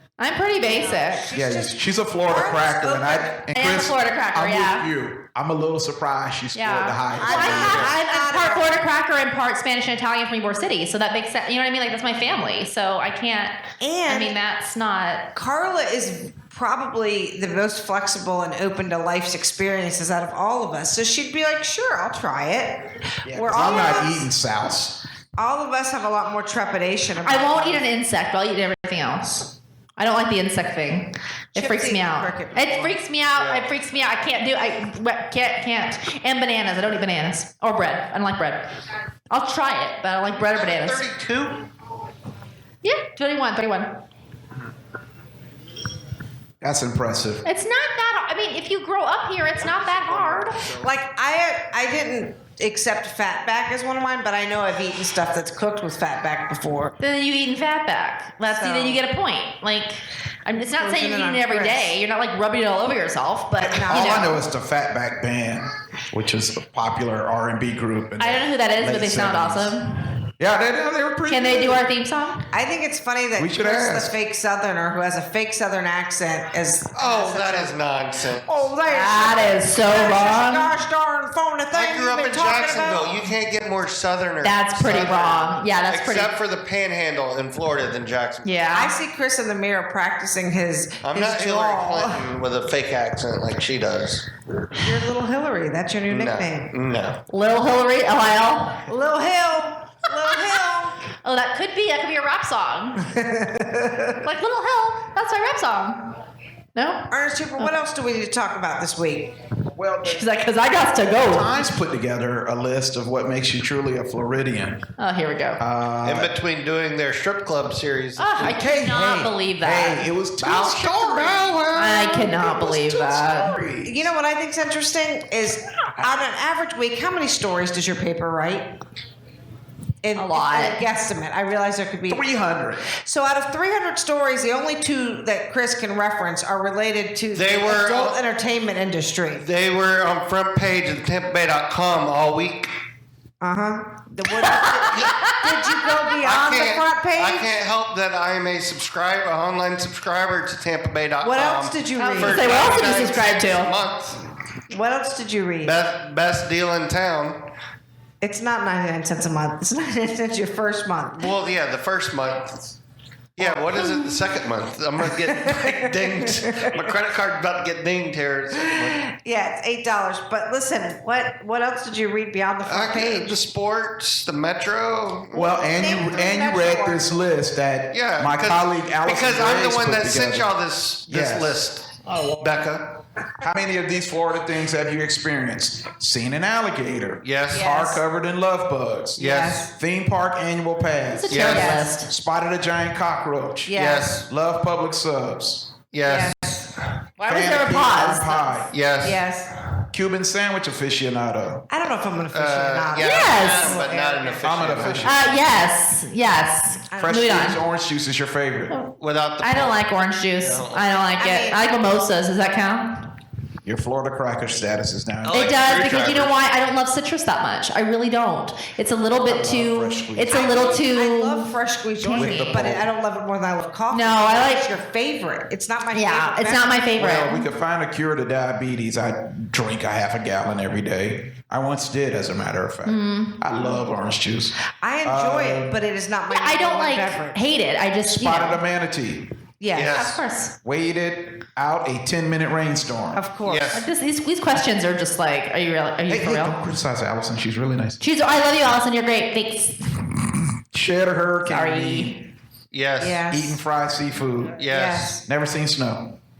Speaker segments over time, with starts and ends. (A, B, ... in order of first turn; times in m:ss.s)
0:00.2-0:01.3 A
0:00.6-0:03.4 B
0:01.3-0:07.9 C
0:03.5-0:04.9 A
0:06.5-0:15.3 A
0:07.2-0:08.8 B
0:07.3-0:07.9 D
0:13.8-0:14.4 B
0:15.3-0:24.3 B
0:23.3-0:25.0 C
0:23.6-0:24.0 A
0:25.4-0:27.9 B
0:27.2-0:38.7 A
0:31.5-0:33.0 B
0:33.3-0:33.7 D
0:39.3-0:41.0 A
0:40.3-0:41.6 D
0:42.8-0:43.9 A
0:46.6-0:47.5 C
0:47.4-0:50.7 A
0:49.6-0:51.0 D
0:50.8-0:57.0 B
0:57.0-1:04.3 A
0:58.5-0:59.0 B
1:00.7-1:02.0 B
1:03.6-1:04.4 B
1:03.8-1:09.8 C
1:08.2-1:10.1 A
1:10.4-1:11.9 C
1:11.3-1:12.4 A
1:12.5-1:17.8 B
1:13.4-1:14.1 C
1:16.9-1:18.7 D
1:18.4-1:23.2 B
1:18.8-1:20.7 A
1:21.7-1:28.5 D
1:24.4-1:26.3 A
1:28.4-1:29.0 A
1:28.7-1:32.3 B
1:31.0-1:34.2 D
1:34.7-1:36.7 B
1:36.1-1:37.2 D
1:37.3-1:38.8 A
1:38.9-1:41.0 B
1:41.2-1:43.0 A
1:43.0-1:44.2 B
1:44.2-1:46.0 A
1:46.8-1:47.1 A
1:47.1-1:49.3 B
1:49.7-1:50.3 C
1:50.0-1:51.6 A
1:51.2-1:54.8 C
1:55.0-1:55.6 A
1:55.6-1:56.3 C
1:56.0-1:58.6 D
1:58.2-2:00.1 A
1:58.4-2:04.0 C
2:00.4-2:02.2 D
2:01.7-2:03.6 A
2:03.8-2:08.7 B
2:10.0-2:12.3 B
2:10.1-2:10.8 A
2:12.1-2:12.8 C
2:12.8-2:19.4 B
2:17.3-2:18.2 D
2:19.4-2:22.7 D
2:23.4-2:27.5 B
2:24.4-2:25.8 A
2:24.8-2:25.1 D
2:26.2-2:34.3 D
2:31.2-2:32.9 B
2:32.0-2:33.7 A
2:34.7-2:35.8 B
2:35.6-2:37.4 D
2:38.2-2:41.3 B
2:41.2-2:42.8 D
2:43.4-2:49.0 D
2:43.4-2:44.2 B
2:45.0-2:46.8 B
2:48.6-2:53.3 B
2:52.6-2:56.1 D
2:55.3-3:00.5 C
2:55.7-2:57.2 B
2:57.9-3:03.0 D
3:01.1-3:01.6 C
3:03.4-3:15.7 C
3:07.2-3:07.7 D
3:07.5-3:08.0 B
3:09.2-3:09.6 D
3:09.2-3:09.7 B
3:11.1-3:12.1 A
3:11.3-3:11.9 D
3:11.4-3:11.9 B
3:13.7-3:14.1 B
3:13.7-3:14.3 D
3:15.9-3:17.0 D
3:16.0-3:16.7 B
3:17.2-3:18.7 A
3:17.3-3:18.7 C
3:18.7-3:19.2 D
3:19.0-3:19.5 B
3:19.9-3:21.6 C
3:21.7-3:25.1 B
3:22.3-3:25.3 D
3:23.0-3:23.8 A
3:24.4-3:25.2 C
3:25.0-3:27.6 A
3:26.9-3:27.5 B
3:27.0-3:28.7 C
3:28.7-3:33.1 A
3:29.0-3:29.8 D
3:30.4-3:30.9 D
3:31.2-3:31.6 B
3:33.6-3:35.6 C
3:35.2-3:36.4 D
3:35.3-3:41.5 A
3:39.1-3:40.4 C
3:40.3-3:46.8 B
3:42.0-3:42.6 A
3:42.0-3:42.9 C
3:43.9-3:44.6 A
3:45.9-3:47.5 A
3:47.0-3:55.8 C
3:52.8-3:53.4 A
3:54.8-3:57.4 B
3:56.3-3:58.6 A
3:58.0-3:59.3 C
3:59.6-4:00.1 B
3:59.7-4:00.2 D
3:59.9-4:00.5 A
4:00.6-4:03.2 C
4:03.1-4:03.7 B
4:03.4-4:03.8 D
4:03.7-4:06.6 A
4:06.1-4:08.0 C
4:08.0-4:09.8 A
4:10.7-4:12.2 C
4:11.5-4:12.1 A
4:12.7-4:13.2 D
4:13.0-4:13.6 B
4:13.3-4:14.6 C
4:14.6-4:15.1 D
4:14.7-4:15.2 B
4:15.2-4:16.2 C